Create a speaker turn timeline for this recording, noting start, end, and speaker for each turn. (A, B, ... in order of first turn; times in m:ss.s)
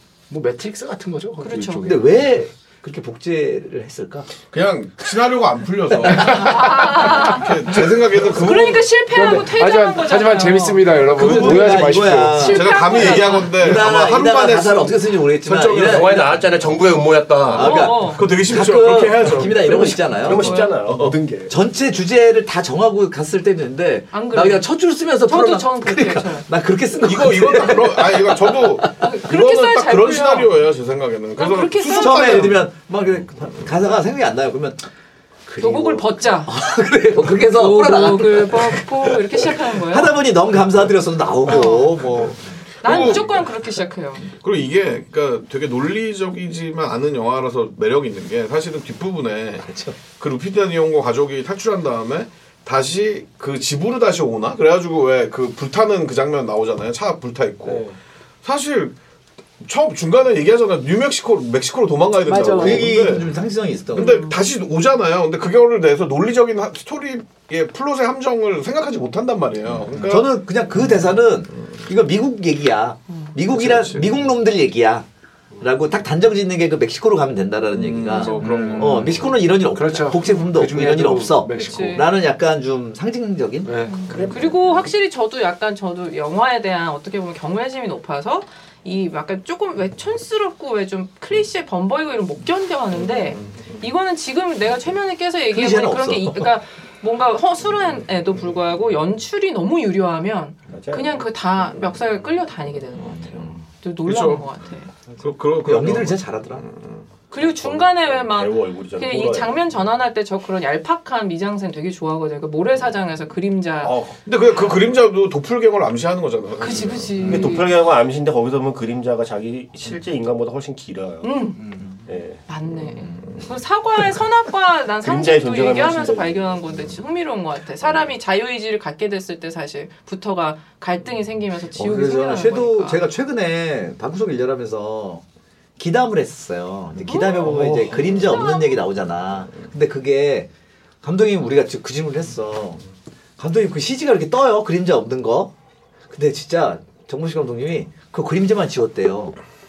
0:00.3-0:02.1 A
0:01.4-0:02.0 B
0:01.8-0:04.3 C
0:04.5-0:08.9 D
0:06.1-0:07.8 B
0:08.3-0:11.0 B
0:09.1-0:12.6 A
0:11.1-0:16.3 D
0:11.1-0:16.3 C
0:12.3-0:13.6 B
0:15.8-0:17.9 E
0:17.5-0:20.7 C
0:17.6-0:18.2 B
0:18.0-0:19.9 D
0:19.2-0:21.5 E
0:20.2-0:20.8 B
0:20.8-0:21.2 D
0:21.5-0:28.9 C
0:24.1-0:24.7 B
0:25.2-0:26.5 B
0:27.0-0:32.6 D
0:29.0-0:30.5 B
0:31.4-0:32.6 B
0:31.9-0:34.8 C
0:35.5-0:43.2 C
0:35.6-0:36.5 B
0:37.4-0:40.2 B
0:41.4-0:42.0 B
0:42.8-0:43.4 D
0:42.8-0:44.3 B
0:44.3-0:57.8 D
0:49.6-0:50.0 C
0:57.6-0:58.0 E
0:58.4-0:58.9 D
0:59.6-1:03.3 D
1:02.3-1:04.3 C
1:02.3-1:02.9 A
1:03.9-1:10.3 D
1:04.0-1:04.3 B
1:10.1-1:15.0 C
1:13.4-1:14.2 D
1:15.6-1:23.7 C
1:17.7-1:19.2 D
1:18.3-1:22.0 A
1:21.6-1:22.1 B
1:23.6-1:24.0 A
1:23.8-1:44.9 B
1:33.3-1:33.8 D
1:35.5-1:36.5 C
1:40.7-1:41.2 E
1:43.1-1:44.5 D
1:45.2-1:47.0 D
1:45.6-1:46.6 C
1:47.3-1:54.0 B
1:47.4-1:49.6 E
1:53.8-1:54.1 E
1:54.2-1:57.2 D
1:56.6-1:57.8 B
1:57.2-1:57.6 A
1:57.2-2:01.4 E
2:01.2-2:01.6 B
2:02.0-2:02.4 E
2:02.5-2:13.0 B
2:05.0-2:06.6 E
2:11.7-2:15.2 C
2:15.8-2:20.5 C
2:17.0-2:18.8 B
2:21.0-2:22.8 C
2:23.4-2:25.5 C
2:26.1-2:29.4 C